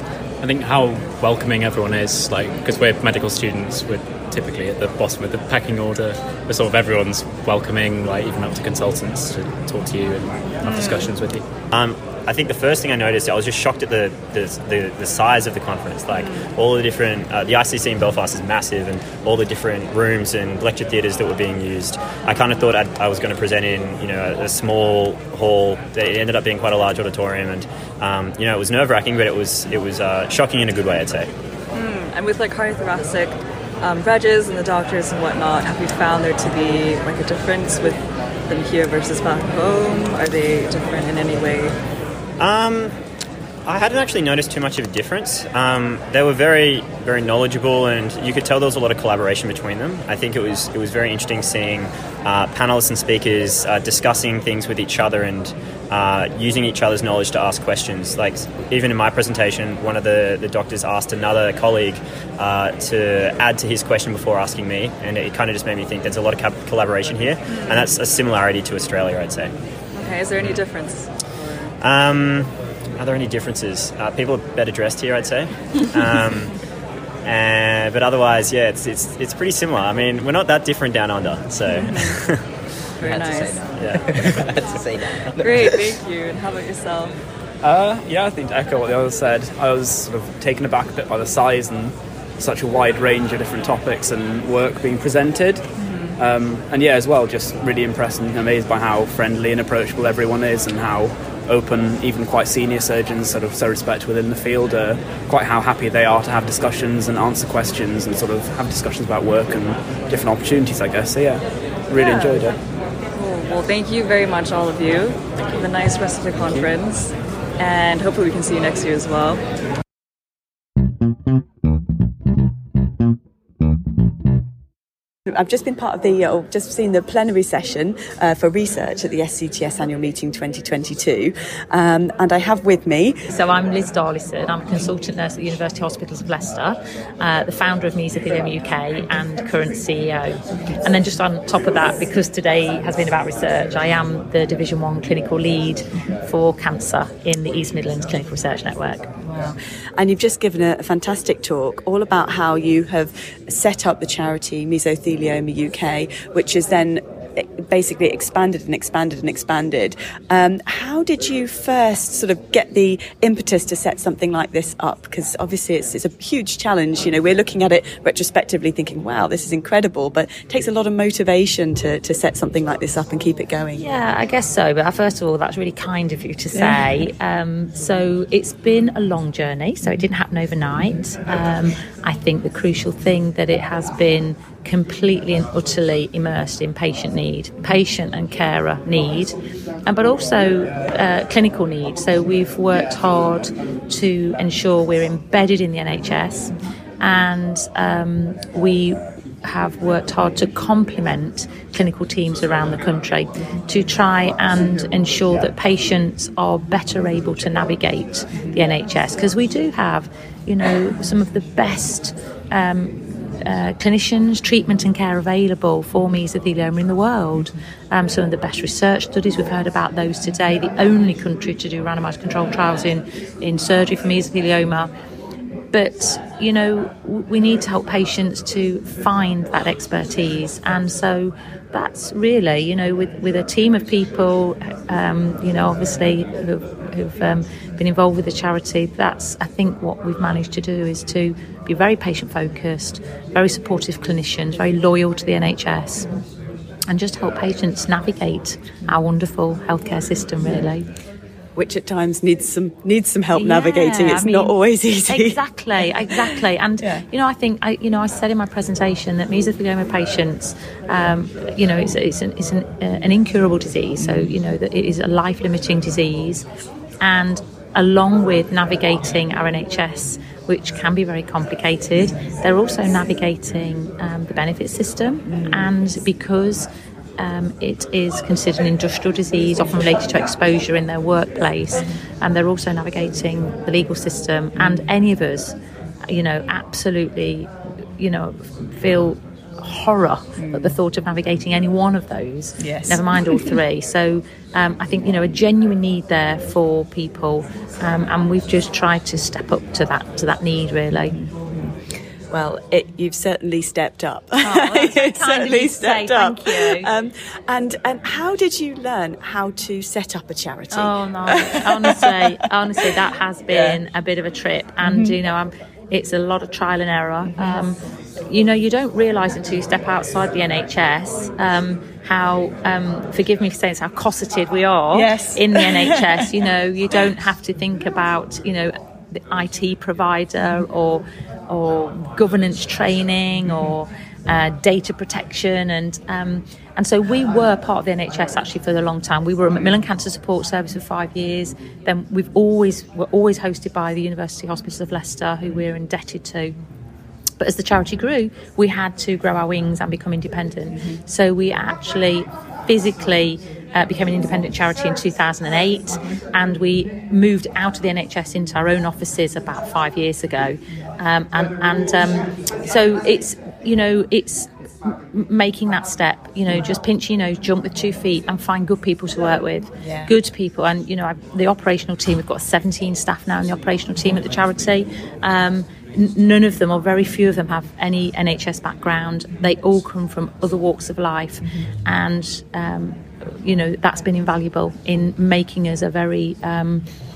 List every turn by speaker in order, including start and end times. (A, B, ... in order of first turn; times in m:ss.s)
0:00.4-0:11.4 A
0:10.7-0:11.0 B
0:11.7-0:31.3 C
0:31.7-0:41.7 B
0:42.4-0:43.0 C
0:43.6-1:09.5 C
1:07.5-1:07.9 B
1:10.0-1:11.1 B
1:11.8-1:16.5 C
1:17.2-1:22.4 C
1:21.8-1:22.1 B
1:23.0-1:23.7 B
1:23.7-1:24.3 C
1:25.4-1:27.2 B
1:27.6-1:52.5 D
1:35.8-1:36.1 B
1:52.0-1:52.6 B
1:53.1-1:59.4 B
2:05.3-2:13.2 E
2:13.3-2:29.1 F
2:29.2-2:53.8 E
2:53.7-3:09.3 F
2:56.5-2:56.9 E
3:09.9-3:44.9 F
3:45.7-4:06.1 F
4:06.9-4:10.8 F
4:11.6-4:16.1 E
4:13.3-4:14.5 F
4:15.1-4:26.4 F
4:24.0-4:24.3 E
4:27.0-4:36.7 F
4:35.3-4:35.7 E
4:37.2-4:45.5 F
4:44.6-4:44.8 E
4:46.1-5:01.1 F
4:50.4-4:50.7 E
4:52.6-4:53.0 E
5:01.1-5:01.7 E
5:02.3-5:12.9 E
5:04.4-5:06.9 F
5:10.7-5:17.8 F
5:13.5-5:13.8 E
5:14.8-5:15.1 E
5:17.2-5:17.7 E
5:18.3-5:46.5 F
5:24.9-5:26.1 E
5:33.4-5:33.7 E
5:47.4-6:26.8 F
6:09.8-6:10.1 E